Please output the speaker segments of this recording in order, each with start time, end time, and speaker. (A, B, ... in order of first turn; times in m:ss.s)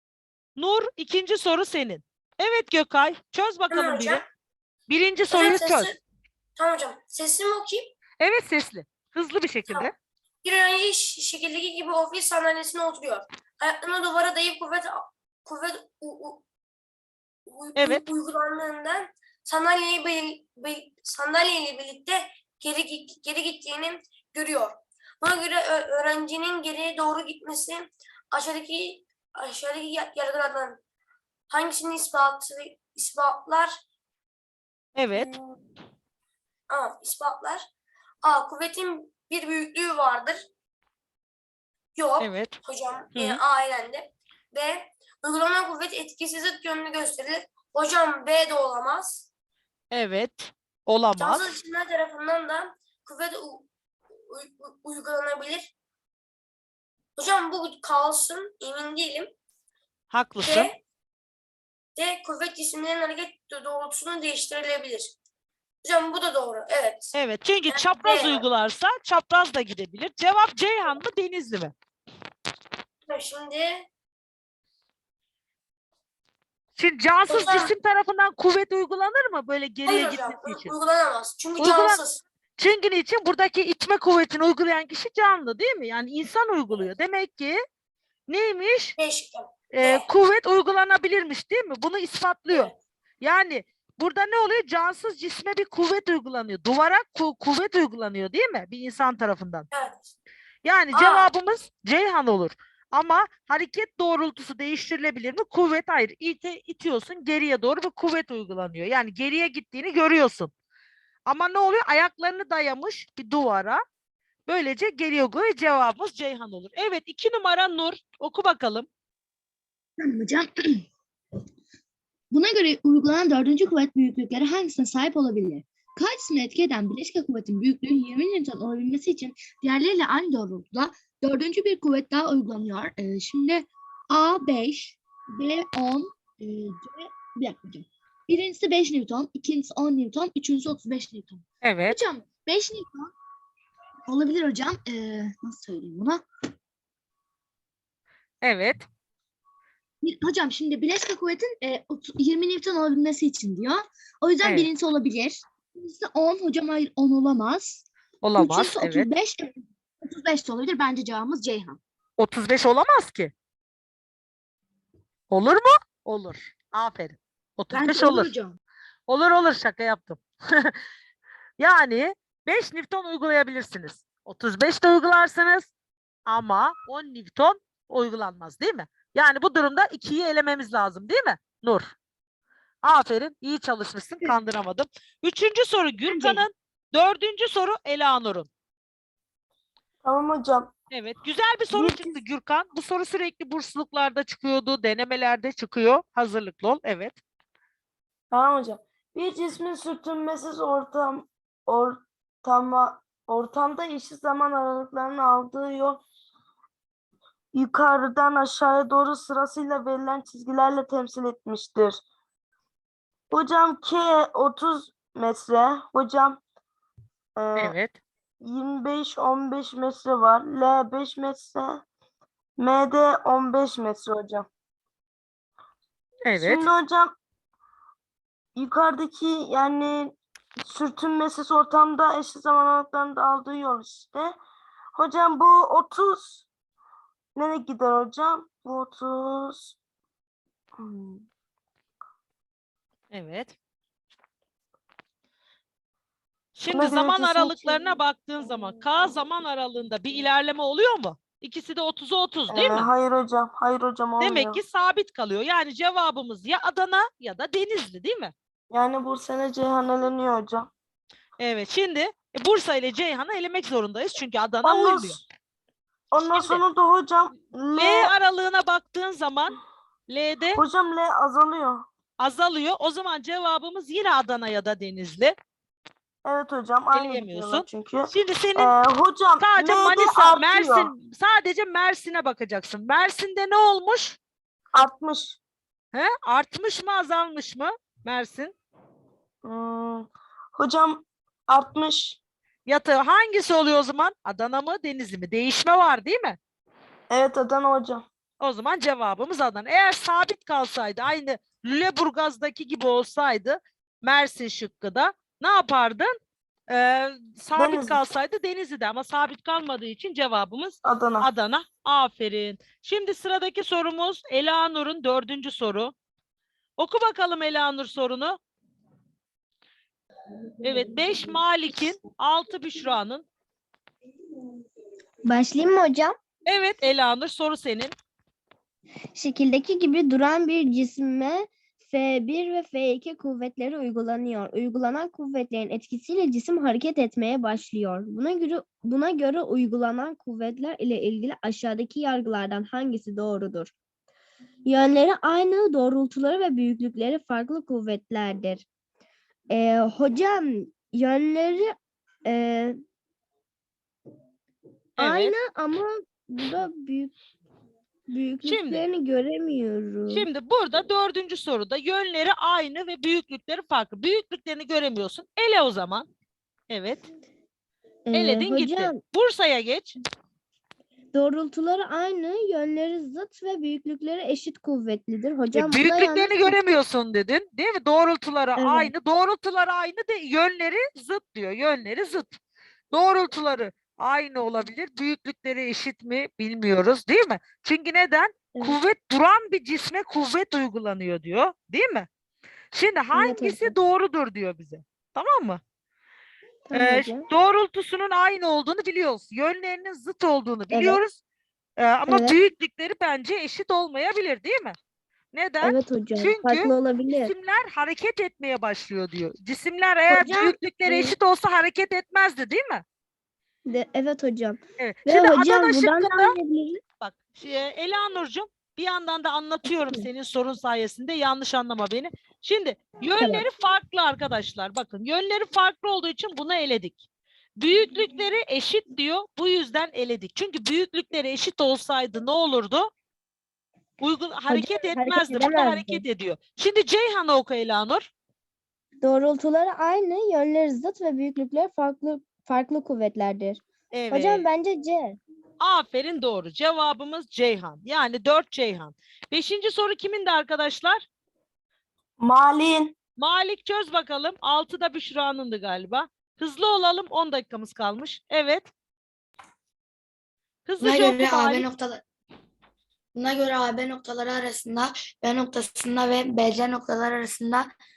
0:00.6-0:04.2 A
0:03.7-0:04.3 B
0:04.9-0:05.9 A
0:05.3-0:06.0 B
0:06.6-0:07.9 B
0:08.2-0:09.9 A
0:10.4-0:16.4 B
0:17.5-0:30.8 B
0:17.8-0:18.0 A
0:31.5-0:33.8 B
0:35.0-0:35.3 A
0:35.1-0:35.6 B
0:36.7-0:37.7 B
0:38.2-0:40.4 B
0:42.0-0:49.3 B
0:42.2-0:42.6 A
0:43.1-0:43.4 A
0:49.9-0:51.5 A
0:51.2-0:53.7 B
0:54.3-0:55.7 B
0:57.2-0:59.3 B
1:00.1-1:00.7 A
1:00.4-1:00.8 B
1:02.0-1:05.1 B
1:05.8-1:07.2 B
1:07.1-1:11.7 A
1:07.7-1:08.5 B
1:13.1-1:13.8 B
1:16.8-1:20.7 A
1:17.3-1:17.7 B
1:19.9-1:22.2 B
1:21.6-1:22.0 A
1:22.6-1:27.6 A
1:28.3-1:29.0 A
1:29.0-1:30.1 B
1:29.7-1:39.7 A
1:39.7-1:40.1 B
1:40.6-1:50.5 A
1:40.9-1:41.3 B
1:51.3-1:53.8 A
1:54.5-1:58.9 A
2:00.0-2:00.8 C
2:02.3-2:23.1 C
2:21.6-2:22.0 A
2:24.1-2:26.2 C
2:28.4-2:28.8 A
2:30.0-2:41.8 C
2:34.4-2:34.7 A
2:38.2-2:39.1 A
2:42.2-2:43.3 A
2:45.3-2:48.3 A
2:47.7-2:48.6 C
2:49.1-2:50.8 A
2:51.6-2:55.7 A
2:56.3-3:01.9 A
3:02.8-3:08.5 A
3:06.1-3:06.4 C
3:10.0-3:10.7 D
3:10.9-3:17.2 A
3:11.7-3:12.2 D
3:18.3-3:26.0 D
3:27.5-3:32.0 D
3:33.3-3:36.4 D
3:37.4-3:37.8 D
3:37.6-3:38.0 A
3:38.4-3:41.8 D
3:42.6-3:44.5 D
3:46.2-3:46.7 A
3:46.4-3:47.1 D
3:48.6-3:54.4 D
3:55.0-3:56.4 D
3:57.4-3:59.8 D
4:00.8-4:01.2 D
4:03.1-4:03.6 A
4:06.6-4:12.9 A
4:06.7-4:07.9 D
4:12.5-4:14.6 D
4:14.2-4:18.3 A
4:18.7-4:20.7 D
4:21.4-4:25.2 A
4:24.6-4:25.2 D
4:26.1-4:28.1 D
4:26.3-4:26.6 A
4:27.8-4:29.6 A
4:30.1-4:30.6 A
4:30.6-4:31.8 D
4:32.2-4:35.4 A
4:36.2-4:40.9 D
4:36.9-4:38.8 A
4:39.4-4:44.2 A
4:44.7-4:45.4 D
4:45.9-4:48.6 A
4:49.4-4:52.2 D
4:52.7-4:56.4 A
4:57.1-4:58.0 D
4:58.4-5:06.1 A
5:06.7-5:15.9 A
5:07.6-5:08.0 D
5:10.8-5:11.3 D
5:16.8-5:18.4 A
5:20.6-5:23.3 A
5:25.3-5:26.2 E
5:26.5-5:27.9 A
5:29.1-5:43.7 E
5:44.7-5:48.6 E
5:49.5-5:51.7 E
5:52.3-5:52.8 E
5:55.0-5:55.3 A
5:55.0-5:57.1 E
5:58.1-6:00.3 E
5:58.4-5:58.8 A
6:00.1-6:06.1 A
6:06.7-6:07.0 A
6:08.1-6:09.0 E
6:08.1-6:10.0 A
6:11.1-6:16.6 E
6:15.5-6:22.4 A
6:18.6-6:18.9 E
6:22.9-6:32.1 A
6:32.7-6:35.6 A
6:33.1-6:33.7 E
6:36.7-6:37.2 E
6:36.7-6:41.2 A
6:40.7-6:41.0 E
6:41.8-6:44.8 A
6:42.1-6:42.4 E
6:45.3-6:52.8 A
6:45.6-6:47.3 E
6:50.1-6:51.2 E
6:53.7-6:56.8 E
6:54.8-6:56.3 A
6:57.0-7:07.0 A
6:59.8-7:00.1 E
7:03.2-7:03.5 E
7:07.6-7:12.9 A
7:14.0-7:18.1 A
7:14.5-7:16.0 E
7:19.0-7:25.2 E
7:23.9-7:24.5 A
7:25.6-7:31.1 A
7:32.2-7:33.0 D
7:33.2-7:38.7 A
7:40.7-7:41.7 A
7:40.8-7:42.0 F
7:43.2-7:47.7 F